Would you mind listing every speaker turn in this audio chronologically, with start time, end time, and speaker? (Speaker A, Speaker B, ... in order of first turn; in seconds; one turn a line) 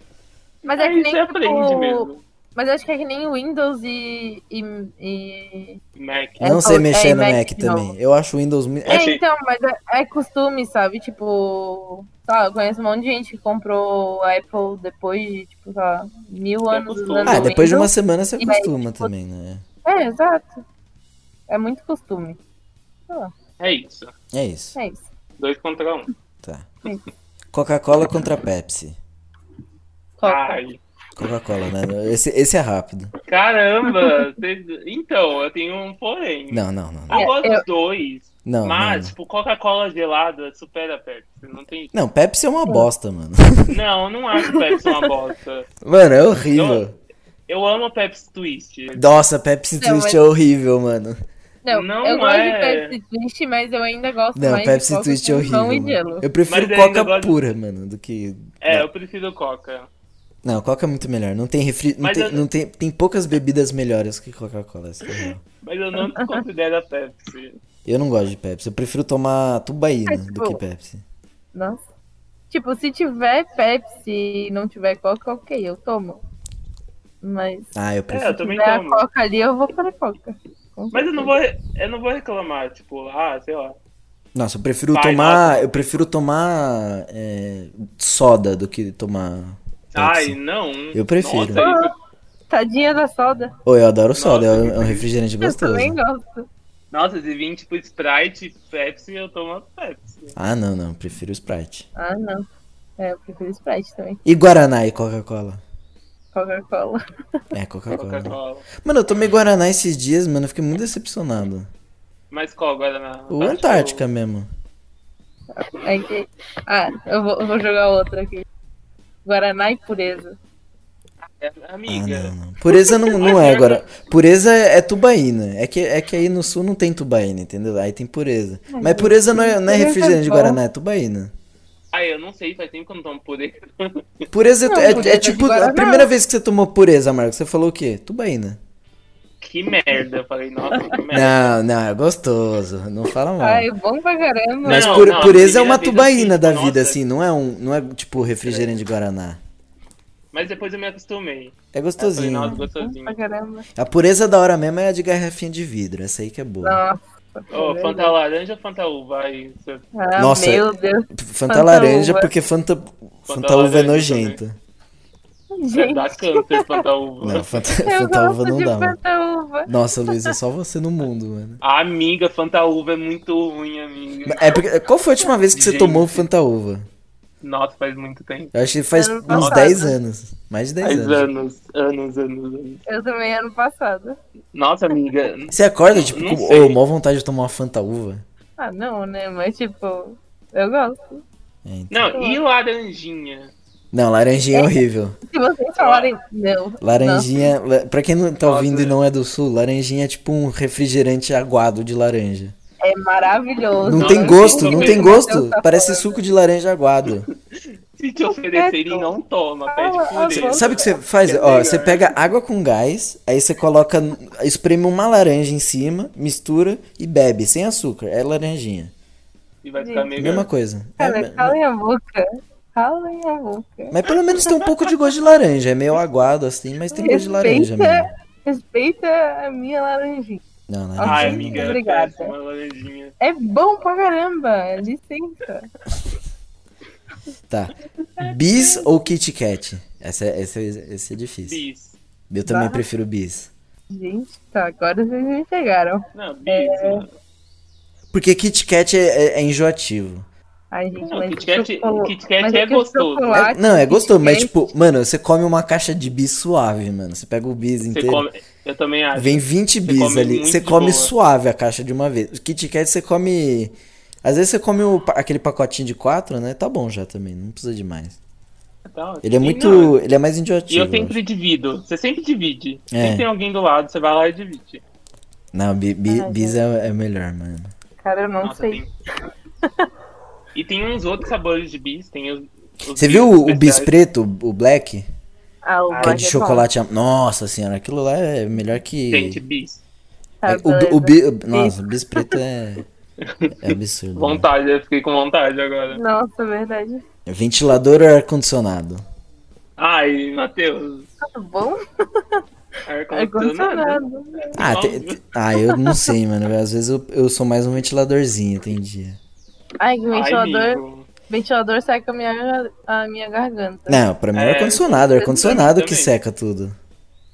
Speaker A: 0.6-5.8
Speaker B: 0.7-2.2
Speaker B: 6.0-6.4
Speaker A: 6.4-7.9
Speaker C: 6.4-9.0
Speaker B: 8.8-9.2
Speaker A: 8.9-19.1
Speaker B: 16.7-17.5
Speaker C: 17.2-19.6
Speaker A: 19.8-20.6
Speaker A: 21.5-22.4
Speaker B: 23.6-24.1
Speaker C: 24.3-24.8
Speaker A: 24.7-25.0
Speaker B: 25.4-26.1
Speaker C: 27.5-29.0
Speaker A: 30.2-30.6
Speaker B: 30.2-30.8
Speaker C: 31.2-33.1
Speaker B: 33.2-41.9
Speaker C: 36.5-37.2
Speaker A: 37.1-37.6
Speaker C: 38.4-39.1
Speaker C: 41.9-43.8
Speaker B: 43.7-45.7
Speaker A: 44.4-45.0
Speaker C: 45.8-46.9
Speaker B: 46.5-46.8
Speaker B: 47.5-49.2
Speaker C: 48.9-51.2
Speaker A: 49.8-50.2
Speaker A: 51.6-56.2
Speaker B: 51.7-52.9
Speaker C: 54.4-58.9
Speaker B: 56.5-57.4
Speaker B: 58.6-59.9
Speaker C: 60.4-65.4
Speaker B: 62.0-62.4
Speaker B: 65.1-67.6
Speaker C: 67.8-71.0
Speaker A: 70.1-70.6
Speaker A: 71.5-71.8
Speaker A: 72.5-76.2
Speaker A: 77.2-77.7
Speaker C: 77.8-78.4
Speaker B: 78.1-79.0
Speaker A: 78.4-81.3
Speaker B: 80.9-83.8
Speaker C: 84.3-90.4
Speaker B: 84.9-86.0
Speaker B: 89.9-91.9
Speaker C: 90.9-91.6
Speaker A: 91.5-91.9
Speaker A: 92.5-93.5
Speaker C: 93.6-96.0
Speaker B: 94.1-95.0
Speaker A: 95.4-96.5
Speaker B: 96.9-100.3
Speaker C: 100.3-101.8
Speaker A: 102.0-102.5
Speaker A: 103.0-104.2
Speaker C: 104.2-105.6
Speaker A: 106.3-107.0
Speaker C: 107.5-111.7
Speaker B: 107.9-108.7
Speaker B: 112.3-114.0
Speaker C: 113.3-114.5
Speaker A: 115.5-118.5
Speaker A: 119.2-120.4
Speaker B: 121.3-122.3
Speaker C: 121.9-131.3
Speaker A: 122.8-123.1
Speaker B: 123.2-123.9
Speaker A: 128.7-130.6
Speaker B: 131.9-134.3
Speaker C: 134.3-138.6
Speaker A: 134.7-136.1
Speaker B: 139.4-141.6
Speaker C: 141.1-143.7
Speaker A: 143.4-145.2
Speaker B: 144.6-147.0
Speaker C: 144.6-149.4
Speaker B: 148.4-148.7
Speaker B: 150.3-153.2
Speaker C: 151.7-152.6
Speaker A: 152.5-153.7
Speaker C: 153.8-156.8
Speaker A: 156.6-158.1
Speaker B: 157.5-159.8
Speaker A: 159.9-162.3
Speaker C: 160.2-164.6
Speaker B: 163.3-164.4
Speaker A: 165.5-166.8
Speaker B: 165.7-167.6
Speaker C: 167.2-169.0
Speaker A: 167.8-170.3
Speaker C: 169.7-171.6
Speaker B: 171.6-174.6
Speaker C: 174.2-176.8
Speaker B: 175.5-176.2
Speaker B: 177.4-178.5
Speaker C: 178.5-181.3
Speaker A: 178.9-179.9
Speaker B: 179.3-179.8
Speaker B: 180.8-182.8
Speaker A: 182.9-184.2
Speaker B: 184.5-186.8
Speaker C: 185.5-188.2
Speaker A: 188.6-191.2
Speaker C: 191.6-192.0
Speaker B: 191.9-193.5
Speaker A: 192.1-192.4
Speaker C: 193.9-195.2
Speaker A: 194.5-197.3
Speaker B: 195.8-196.1
Speaker C: 196.8-202.5
Speaker B: 198.4-198.9
Speaker A: 202.8-206.2
Speaker C: 203.8-207.3
Speaker B: 203.9-205.2
Speaker B: 207.5-212.1
Speaker A: 208.2-209.1
Speaker A: 209.7-210.9
Speaker C: 210.4-218.9
Speaker B: 219.6-220.5
Speaker A: 219.8-220.1
Speaker C: 220.2-221.6
Speaker A: 221.0-224.0
Speaker C: 223.9-228.1
Speaker A: 226.9-230.4
Speaker C: 230.7-231.8
Speaker A: 231.0-232.3
Speaker B: 231.0-233.1
Speaker A: 233.2-235.7
Speaker C: 237.5-241.6
Speaker B: 241.4-242.0
Speaker C: 242.3-243.5
Speaker A: 242.4-242.8
Speaker A: 243.9-247.0
Speaker B: 246.1-247.2
Speaker C: 248.1-250.2
Speaker A: 250.7-254.6
Speaker B: 251.0-253.4
Speaker C: 253.3-258.2
Speaker B: 257.9-261.1
Speaker C: 259.1-268.2
Speaker B: 268.9-269.9
Speaker C: 269.2-271.2
Speaker B: 270.7-274.8
Speaker C: 272.9-273.2
Speaker C: 275.5-277.7
Speaker A: 276.1-276.6
Speaker A: 278.0-278.8
Speaker B: 278.4-278.9
Speaker B: 280.5-283.9
Speaker C: 282.9-285.1
Speaker A: 285.6-286.7
Speaker B: 285.9-286.2
Speaker C: 286.0-289.4
Speaker B: 289.1-289.8
Speaker A: 290.4-292.3
Speaker C: 290.4-292.8
Speaker B: 293.2-296.0
Speaker C: 293.6-294.5
Speaker A: 295.9-297.0
Speaker C: 297.2-299.0
Speaker B: 299.8-301.1
Speaker A: 301.2-302.4
Speaker B: 302.9-305.2
Speaker A: 303.1-304.6
Speaker C: 304.6-309.2
Speaker A: 305.6-306.1
Speaker A: 309.8-314.0
Speaker B: 310.1-311.1
Speaker C: 313.9-316.7
Speaker B: 314.3-316.1